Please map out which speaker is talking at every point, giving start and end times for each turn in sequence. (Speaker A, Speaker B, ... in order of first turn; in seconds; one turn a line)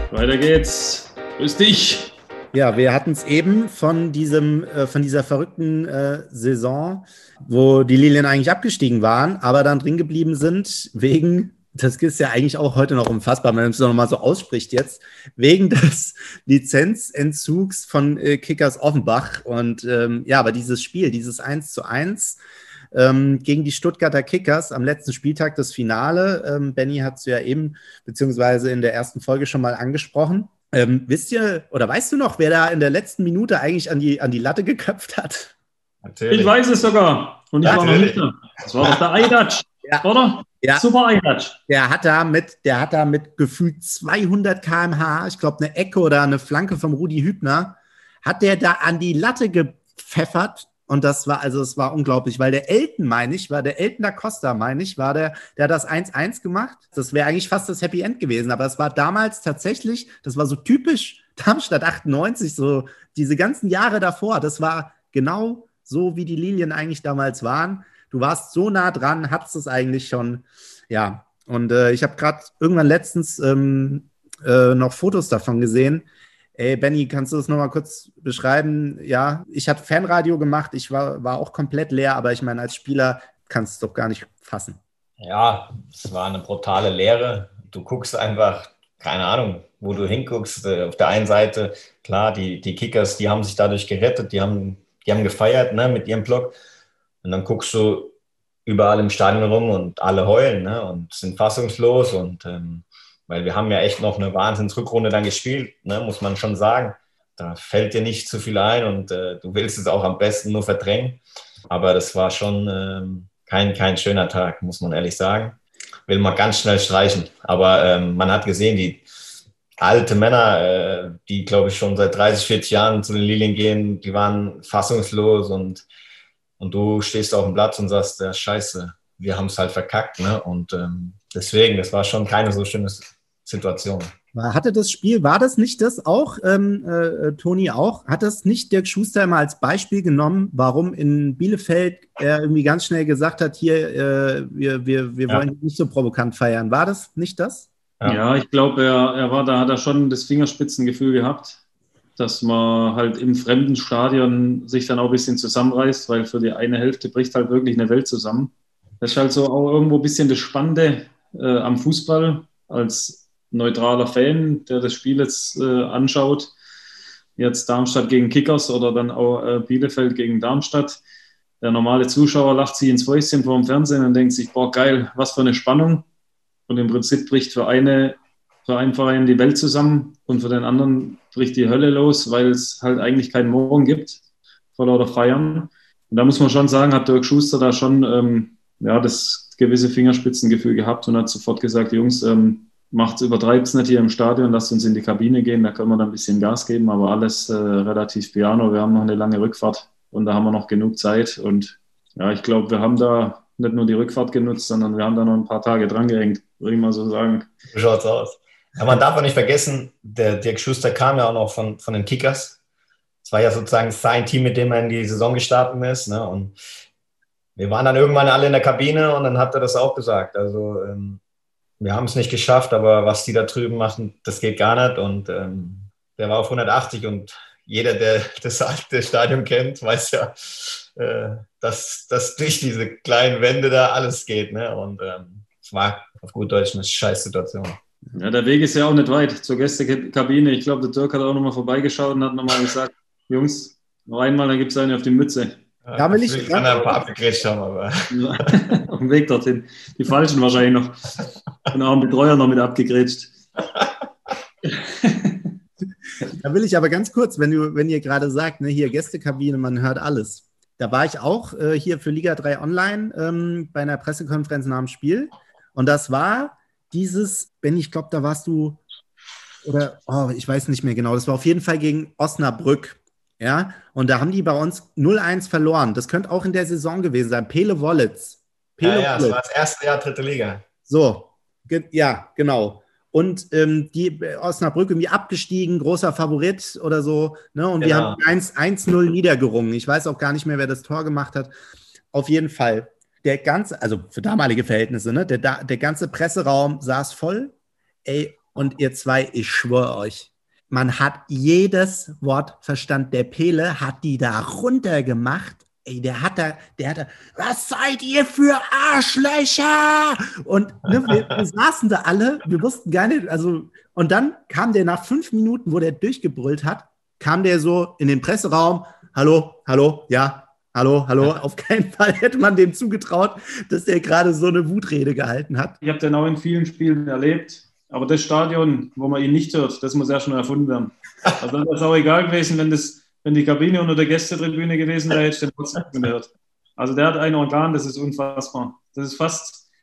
Speaker A: 0.1-2.2
Speaker B: 2.5-22.4
Speaker B: 22.9-35.5
Speaker C: 36.0-36.6
Speaker A: 36.3-41.6
Speaker C: 37.6-38.2
Speaker B: 37.7-37.9
Speaker B: 41.7-84.8
Speaker C: 85.2-96.6
Speaker C: 97.2-98.1
Speaker C: 98.7-119.0
Speaker C: 119.8-125.9
Speaker C: 126.6-134.1
Speaker B: 134.3-147.7
Speaker A: 148.1-151.6
Speaker A: 152.2-166.5
Speaker A: 167.4-171.0
Speaker A: 171.6-176.1
Speaker A: 176.7-184.2
Speaker A: 184.7-207.5
Speaker C: 207.7-212.6
Speaker C: 213.2-216.6
Speaker C: 217.6-221.2
Speaker C: 221.8-237.8
Speaker A: 238.2-245.6
Speaker C: 245.9-248.2
Speaker B: 246.0-247.0
Speaker A: 248.1-251.0
Speaker A: 251.7-253.3
Speaker A: 254.7-255.5
Speaker B: 256.2-268.8
Speaker B: 269.6-279.4
Speaker C: 278.8-280.6
Speaker B: 280.9-291.5
Speaker C: 287.8-288.2
Speaker B: 292.1-297.6
Speaker B: 298.1-325.8
Speaker C: 311.1-311.4
Speaker A: 325.8-339.6